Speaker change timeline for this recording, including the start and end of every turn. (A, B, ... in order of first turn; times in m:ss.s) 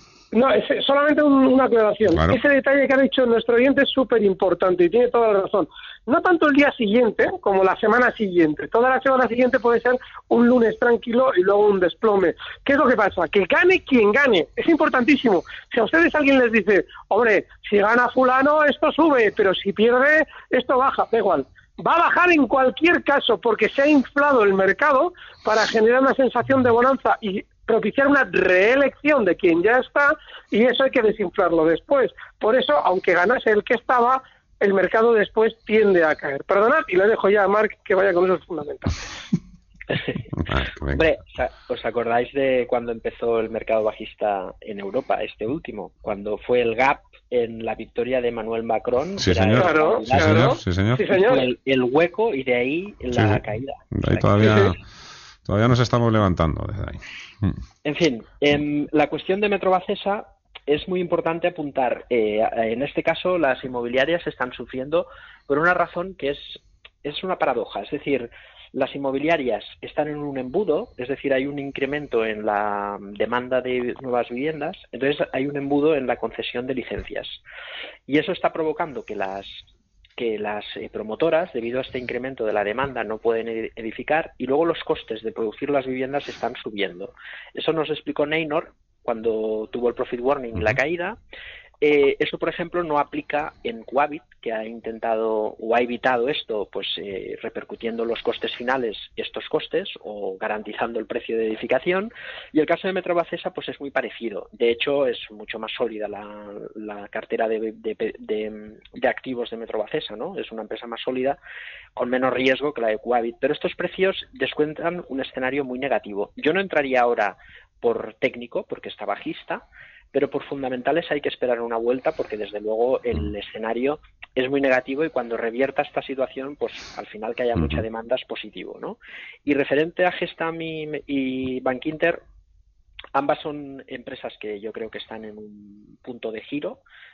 0:00.3-0:39.0 A
0:02.1-0:02.4 B
0:39.9-0:40.2 C
0:40.4-0:41.0 B
0:40.9-0:54.7 C
0:49.2-0:51.0 B
0:49.6-0:51.5 A
0:53.1-0:53.4 B
0:53.9-0:54.8 B
0:54.4-0:54.7 A
0:55.4-0:57.6 B
0:57.8-1:17.4 C
1:18.1-1:19.6 C
1:20.2-1:31.2 C
1:31.8-1:51.4 C
1:51.9-2:12.2 C
2:07.6-2:07.8 B
2:13.1-2:16.8 C